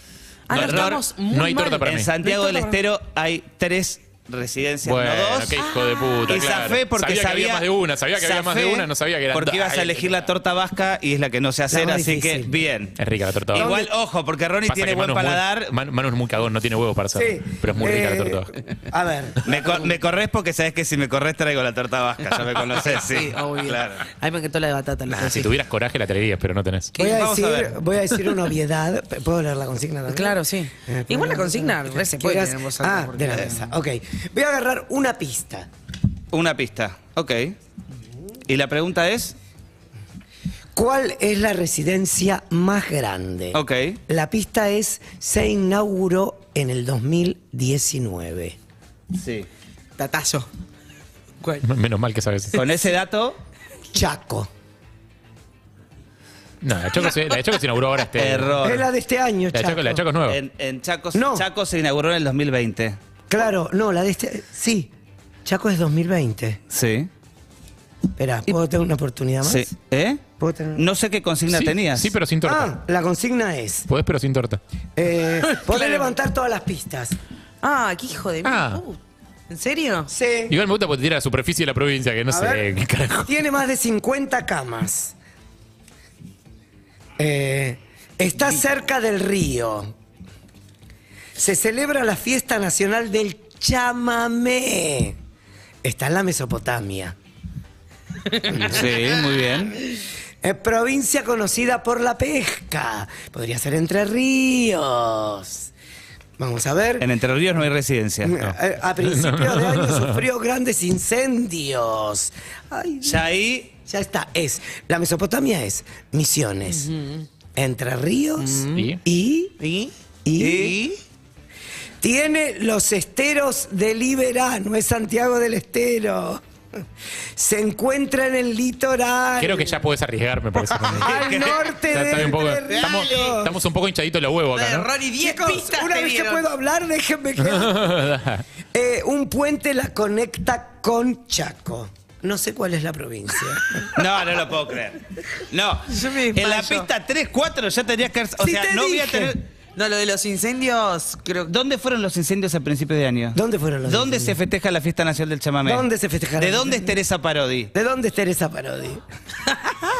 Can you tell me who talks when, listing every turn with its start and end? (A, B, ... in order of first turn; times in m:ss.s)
0:00.5-0:02.8 A
0:00.5-0:02.1 B
0:00.6-0:01.0 C
0:01.8-0:05.6 C
0:04.8-0:10.3 B
0:05.7-0:06.5 A
0:06.3-0:13.0 C
0:11.7-0:12.5 D
0:13.0-0:13.7 B
0:13.5-0:15.7 C
0:13.5-0:13.9 D
0:14.6-0:18.5 B
0:17.1-0:19.8 D
0:19.4-0:24.0 C
0:22.8-0:25.5 A
0:25.1-0:26.9 B
0:26.9-0:27.2 A
0:27.0-0:27.8 C
0:27.0-0:30.4 D
0:30.1-0:33.7 A
0:30.9-0:35.7 D
0:36.3-0:37.6 C
0:38.5-0:39.4 C
0:40.7-0:48.6 D
0:43.5-0:44.0 C
0:49.1-0:49.5 C
0:50.0-0:50.5 A
0:51.6-0:52.6 B
0:52.5-0:53.4 C
0:53.9-0:54.5 D
0:56.6-0:58.7 B
0:58.1-0:58.9 C
0:58.6-1:00.0 D
0:59.5-1:00.4 B
1:00.3-1:03.0 C
1:01.1-1:01.4 D
1:03.3-1:04.9 D
1:05.4-1:06.6 D
1:06.7-1:07.1 C
1:08.2-1:09.7 D
1:09.4-1:10.2 C
1:10.4-1:10.8 D
1:10.8-1:12.1 C
1:11.5-1:12.7 B
1:12.4-1:13.8 D
1:13.9-1:14.6 B
1:15.0-1:17.2 D
1:15.6-1:16.1 A
1:17.6-1:20.1 A
1:18.4-1:18.8 B
1:20.1-1:20.6 D
1:20.5-1:23.3 B
1:22.3-1:22.7 D
1:23.2-1:25.2 D
1:27.2-1:29.9 D
1:31.4-1:35.2 D
1:35.8-1:37.2 D
1:38.5-1:38.9 D
1:38.6-1:39.8 C
1:40.4-1:45.7 D
1:46.4-1:47.1 D
1:47.0-1:48.4 C
1:48.2-1:53.2 D
1:48.4-1:50.2 B
1:53.0-1:53.8 C
1:53.9-1:56.9 D
1:57.5-1:59.5 D
1:58.4-1:58.9 A
1:58.7-1:59.0 B
1:59.6-1:59.9 A
2:00.2-2:00.8 D
2:00.4-2:00.8 C
2:02.0-2:06.4 D
2:07.4-2:09.8 D
2:09.4-2:14.9 B
2:10.6-2:13.5 D
2:10.9-2:11.9 C
2:12.7-2:13.4 A
2:14.5-2:16.4 A
2:15.2-2:18.0 D
2:17.4-2:18.4 B
2:18.7-2:23.9 D
2:24.0-2:29.4 C
2:25.9-2:26.9 A
2:28.4-2:29.3 D
2:29.7-2:31.5 A
2:31.5-2:37.7 C
2:33.3-2:34.4 D
2:35.6-2:37.0 D
2:37.7-2:39.0 D
2:39.5-2:39.7 A